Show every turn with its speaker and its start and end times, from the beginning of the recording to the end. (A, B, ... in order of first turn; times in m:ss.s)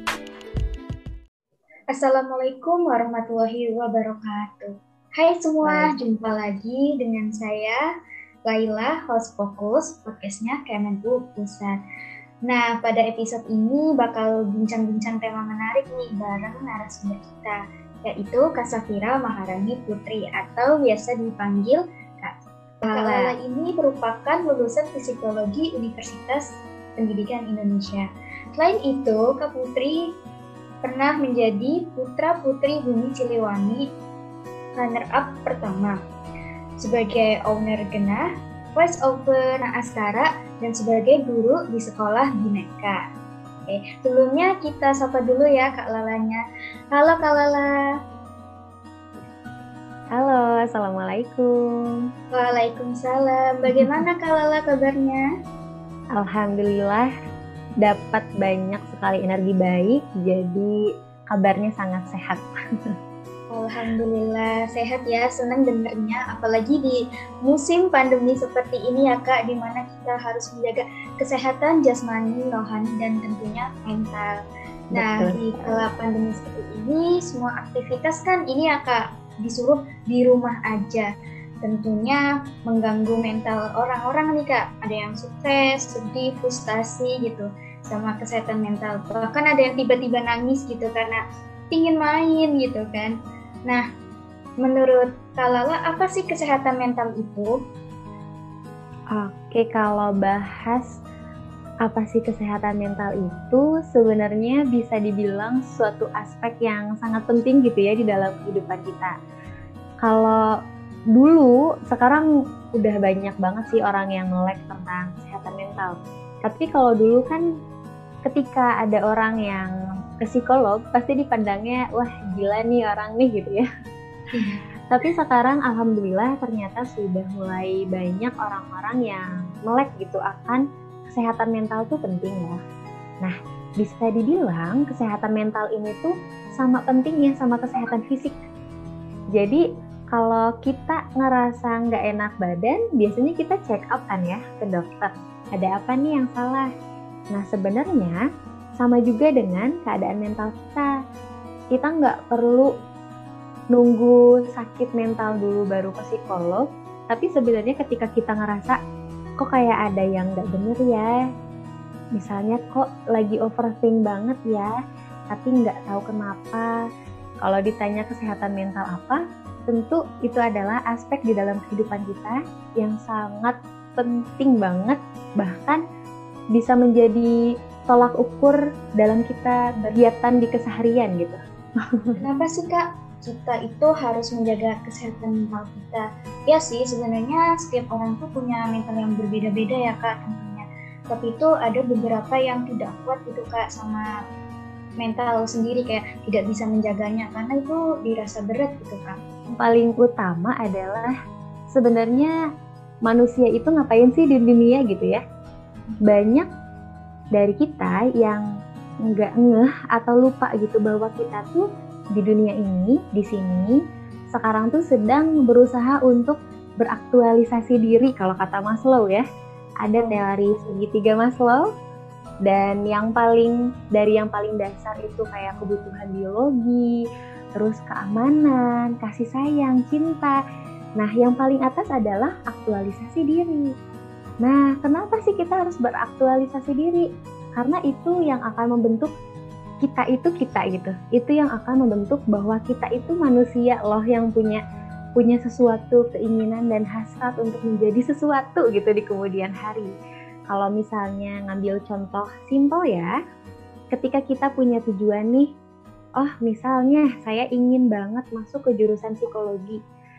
0:01.9-0:07.8 A
0:05.6-0:05.9 B
0:08.5-0:11.8 A
0:12.5-0:22.4 A
0:22.8-0:23.3 B
0:22.9-0:30.0 A
0:30.8-0:33.9 A
0:34.8-0:36.0 A
0:36.8-0:43.0 A
0:43.7-0:46.4 A
0:46.9-0:47.8 A
0:50.2-0:51.5 B
0:52.3-0:55.3 A
0:56.2-0:57.1 B
0:57.8-1:00.7 B
1:01.3-1:02.4 B
1:03.5-1:14.3 A
1:14.9-1:15.8 B
1:15.0-1:21.1 A
1:21.6-1:33.2 A
1:34.6-1:37.6 A
1:39.2-1:41.0 B
1:41.8-1:49.1 B
1:50.0-1:50.5 B
1:51.2-1:57.4 B
1:58.2-1:59.7 B
2:00.2-2:03.7 B
2:04.3-2:04.6 A
2:04.9-2:12.6 B
2:13.2-2:18.4 B
2:19.4-2:19.6 B
2:20.1-2:26.7 B
2:27.4-2:28.2 B
2:28.8-2:30.9 B
2:31.8-2:32.7 B
2:33.7-2:38.8 B
2:39.4-2:41.1 B
2:42.2-2:44.7 B
2:45.3-2:46.7 B
2:47.4-2:55.8 B
2:56.6-2:57.3 B
2:57.9-3:02.2 B
3:02.2-3:14.1 A
3:15.0-3:19.2 A
3:19.5-3:21.1 B
3:21.8-3:22.3 B
3:23.1-3:25.2 B
3:26.0-3:26.5 B
3:27.4-3:28.4 B
3:29.1-3:31.6 B
3:32.2-3:33.8 B
3:34.3-3:39.2 B
3:39.8-3:41.6 B
3:42.5-3:46.9 B
3:47.6-3:50.4 B
3:51.0-3:53.6 B
3:54.4-3:57.1 B
3:57.6-3:59.1 B
3:59.8-4:04.6 B
4:05.2-4:09.9 B
4:10.5-4:13.1 B
4:13.9-4:15.5 B
4:16.2-4:19.8 B